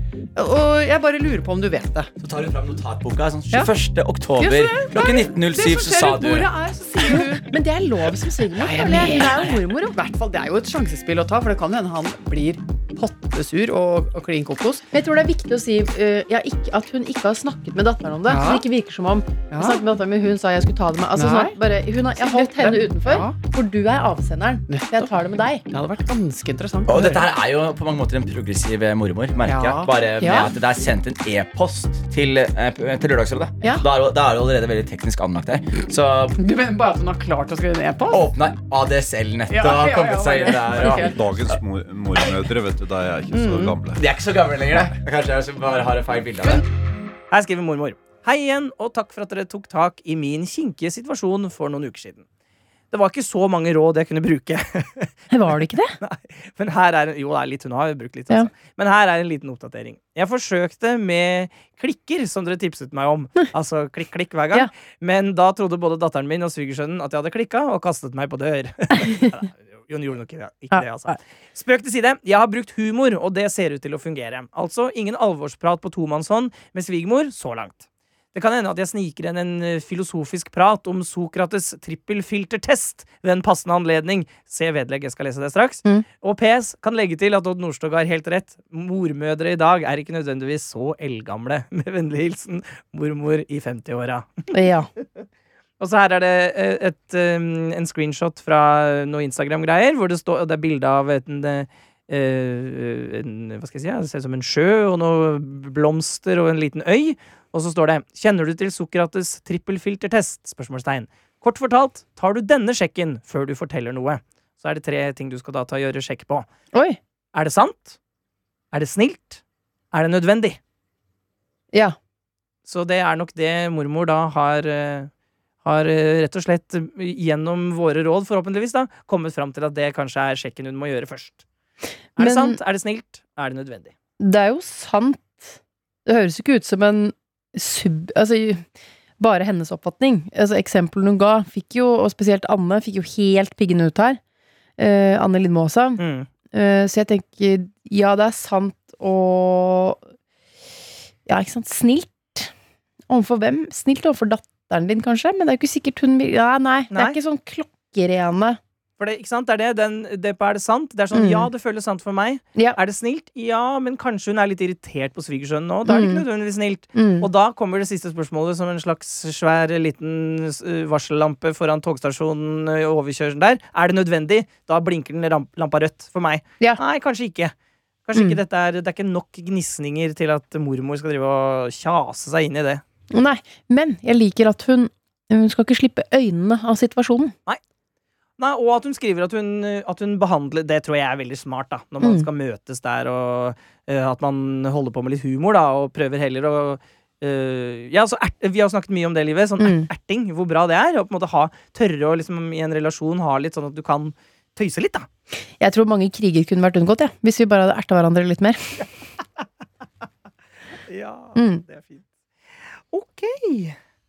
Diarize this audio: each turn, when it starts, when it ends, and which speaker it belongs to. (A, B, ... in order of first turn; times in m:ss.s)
0:00.4-0:02.1 A
0:02.2-0:06.5 B
0:04.4-0:07.5 A
0:07.1-0:10.0 C
0:08.6-0:14.8 A
0:14.9-0:25.6 C
0:18.3-0:18.6 A
0:19.5-0:19.8 A
0:21.1-0:21.6 A
0:22.2-0:23.4 A
0:24.7-0:25.1 A
0:25.7-0:27.3 A
0:26.9-0:36.4 B
0:29.4-0:30.5 A
0:30.2-0:30.5 C
0:36.4-0:38.3 A
0:38.1-0:41.6 B
0:39.5-0:41.4 A
0:41.2-0:44.0 D
0:42.2-0:42.5 B
0:43.3-0:46.6 B
0:47.3-0:52.2 E
0:52.9-0:55.2 E
0:55.3-0:56.0 C
0:56.0-1:17.8 E
1:10.7-1:11.2 C
1:18.3-1:34.5 E
1:34.5-1:34.9 C
1:35.8-1:56.5 E
1:56.7-1:57.0 C
1:57.3-1:58.0 E
1:58.7-1:59.4 E
1:59.9-2:00.6 E
2:02.7-2:05.1 E
2:05.6-2:11.4 E
2:12.2-2:12.6 C
2:12.2-2:13.9 E
2:14.2-2:18.7 C
2:19.2-2:24.2 C
2:24.8-2:30.0 C
2:26.0-2:26.3 E
2:31.3-2:32.5 C
2:33.1-2:38.6 C
2:39.0-2:57.5 E
2:41.1-2:41.5 C
2:45.9-2:46.3 C
2:46.9-2:47.3 C
2:58.1-3:02.8 E
3:03.1-3:07.3 C
3:08.4-3:25.1 E
3:12.0-3:12.3 C
3:19.6-3:19.9 C
3:25.6-3:28.8 C
3:30.9-3:32.1 E
3:31.4-3:31.6 C
3:32.9-3:33.8 E